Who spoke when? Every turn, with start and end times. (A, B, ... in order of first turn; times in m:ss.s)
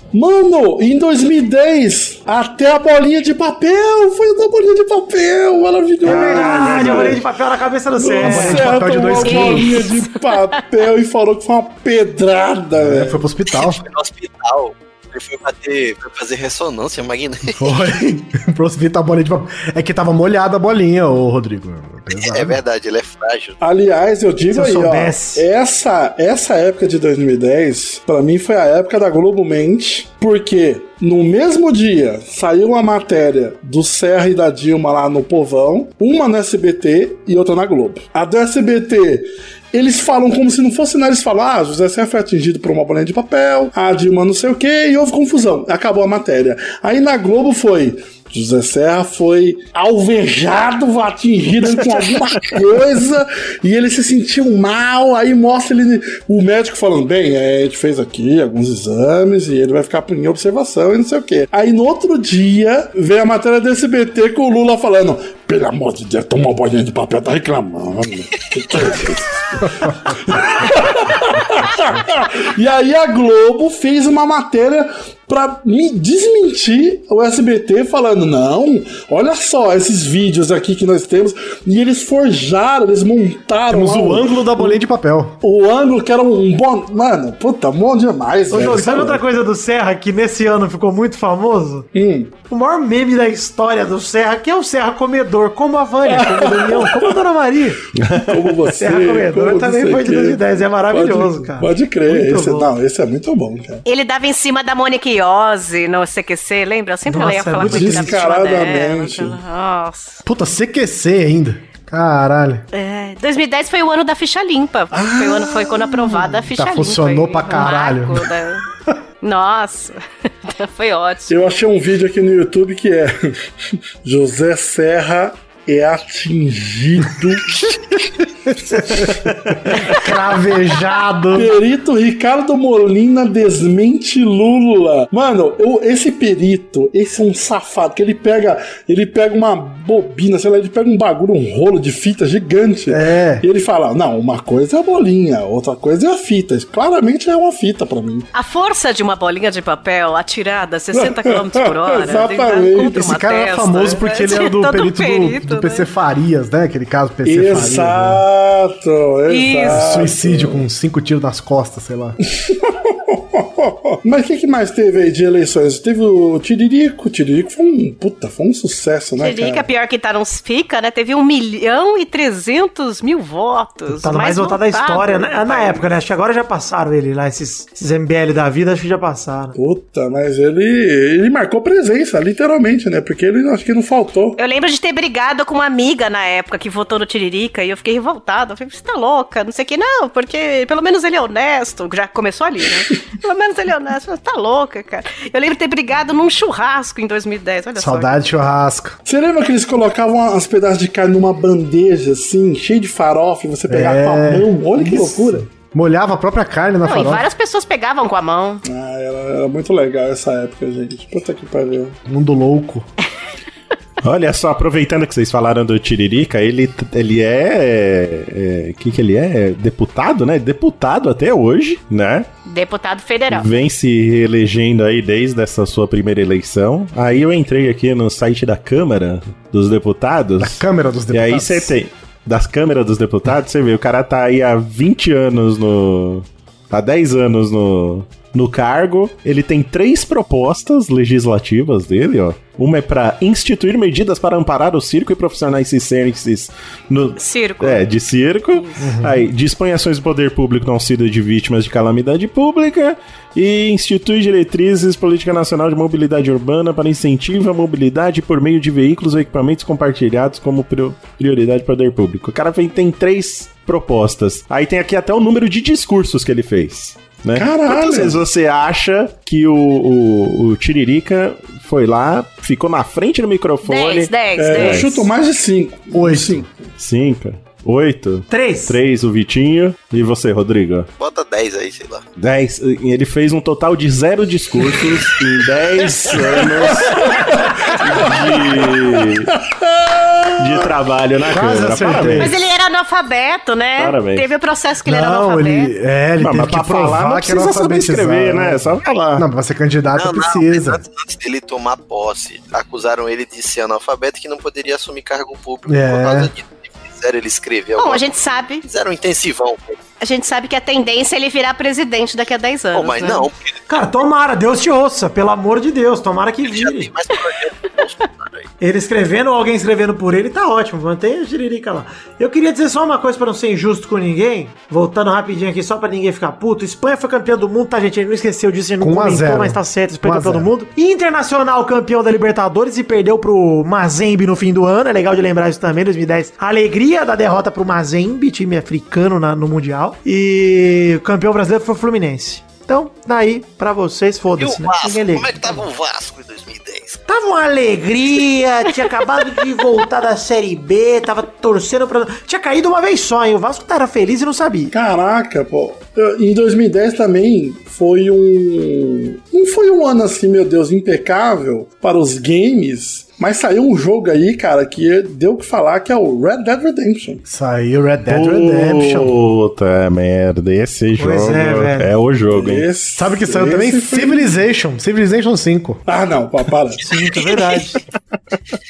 0:00.1-0:07.2 A
0:06.0-0:08.8 B
0:06.1-0:07.1 C
0:08.0-0:13.2 A
0:08.2-0:09.9 D
0:09.2-0:10.6 E
0:12.8-0:13.8 D
0:13.5-0:17.9 F
0:17.5-0:22.6 D
0:22.2-0:23.6 F
0:23.6-1:24.8 A
0:24.5-0:25.4 B
1:23.7-1:25.4 D
1:25.4-1:29.2 A
1:28.5-1:31.9 B
1:31.9-1:32.3 A
1:32.5-1:37.8 B
1:36.1-1:37.2 A
1:38.0-1:38.6 C
1:38.2-1:43.8 A
1:38.8-1:42.7 B
1:43.8-1:50.2 E
1:47.1-1:48.2 B
1:47.6-1:49.4 A
1:50.2-1:52.6 D
1:52.7-1:58.6 E
1:54.9-1:56.2 A
1:56.5-1:58.3 D
1:59.2-2:01.4 E
2:01.3-2:03.5 A
2:04.0-2:07.6 A
2:08.5-2:11.5 D
2:11.3-2:28.3 A
2:22.9-2:23.4 D
2:28.3-2:35.9 E
2:31.0-2:33.0 A
2:32.9-2:38.2 D
2:37.2-2:40.6 A
2:39.3-2:39.8 E
2:39.7-2:42.2 D
2:42.5-2:49.6 A
2:49.2-2:55.9 E
2:54.0-2:59.6 B
2:59.6-3:04.4 A
3:04.4-3:18.2 E
3:17.8-3:19.0 D
3:19.1-3:25.5 A
3:23.7-3:27.2 D
3:26.8-3:28.6 E
3:28.6-3:32.0 A
3:32.1-3:32.9 D
3:34.0-3:42.3 C
3:42.5-3:43.5 E
3:43.3-3:50.6 C
3:50.4-3:51.7 D
3:51.1-4:35.0 C
4:07.2-4:07.9 E
4:08.5-4:08.8 E
4:08.8-4:09.2 D
4:27.3-4:28.2 A
4:33.6-4:34.9 E
4:34.4-4:36.5 A
4:35.9-4:36.5 D
4:36.8-4:40.9 C
4:38.3-4:38.8 B
4:41.0-4:42.1 F
4:42.2-4:49.3 C
4:46.1-4:50.7 A
4:50.4-4:52.4 C
4:51.3-4:52.4 D
4:52.2-4:55.7 E
4:53.8-4:54.3 C
4:54.8-5:00.8 D
4:56.2-4:59.3 C
5:00.0-5:08.0 F
5:05.7-5:06.3 D
5:07.8-5:08.6 E
5:08.6-5:09.8 F
5:10.0-5:13.3 E
5:12.7-5:13.6 F
5:13.7-5:16.9 B
5:16.4-5:18.5 F
5:18.6-5:45.6 B
5:28.8-5:30.5 D
5:44.4-5:47.0 F
5:47.1-5:54.7 B
5:54.7-6:07.2 A
6:07.3-6:09.2 D
6:08.1-6:12.7 C
6:11.0-6:11.9 B
6:12.3-6:14.3 A
6:13.0-6:15.8 D
6:15.9-6:16.8 A
6:16.8-6:17.8 B
6:17.1-6:17.5 F